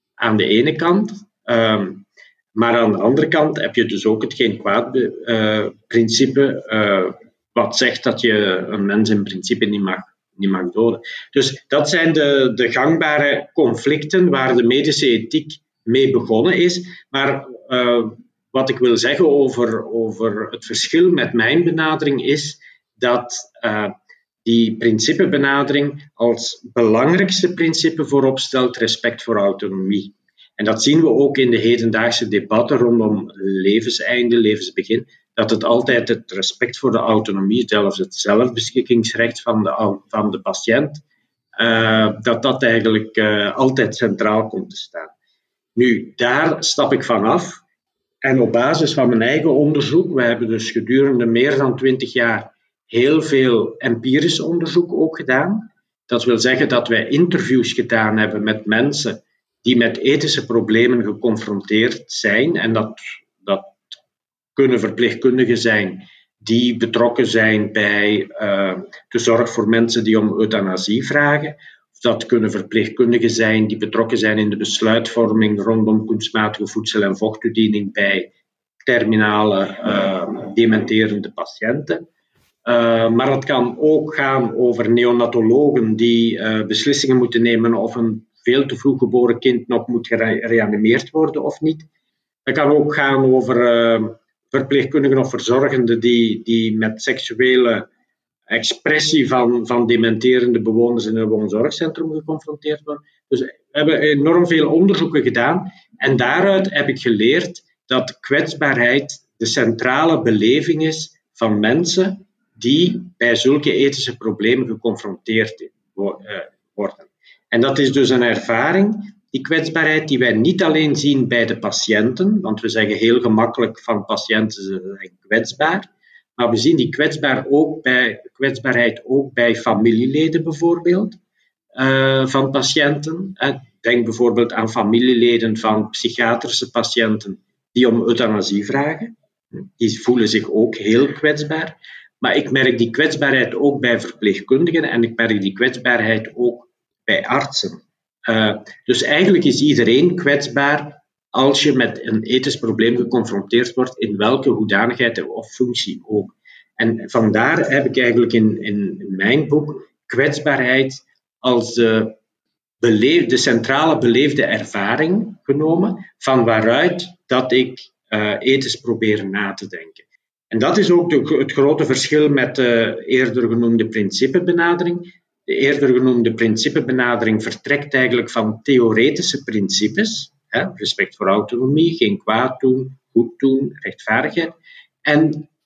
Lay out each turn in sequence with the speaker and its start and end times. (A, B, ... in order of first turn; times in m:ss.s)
0:00.2-0:23.9 A
0:24.4-0:41.0 A
0:41.6-0:45.1 A
0:45.8-0:47.6 A
0:48.2-1:03.8 A
1:04.6-1:18.3 A
1:18.9-1:22.0 A
1:22.6-1:31.9 A
1:32.5-1:37.9 A
1:38.5-2:11.2 A
2:11.8-2:19.1 A
2:19.8-2:42.2 A
2:42.8-3:05.5 A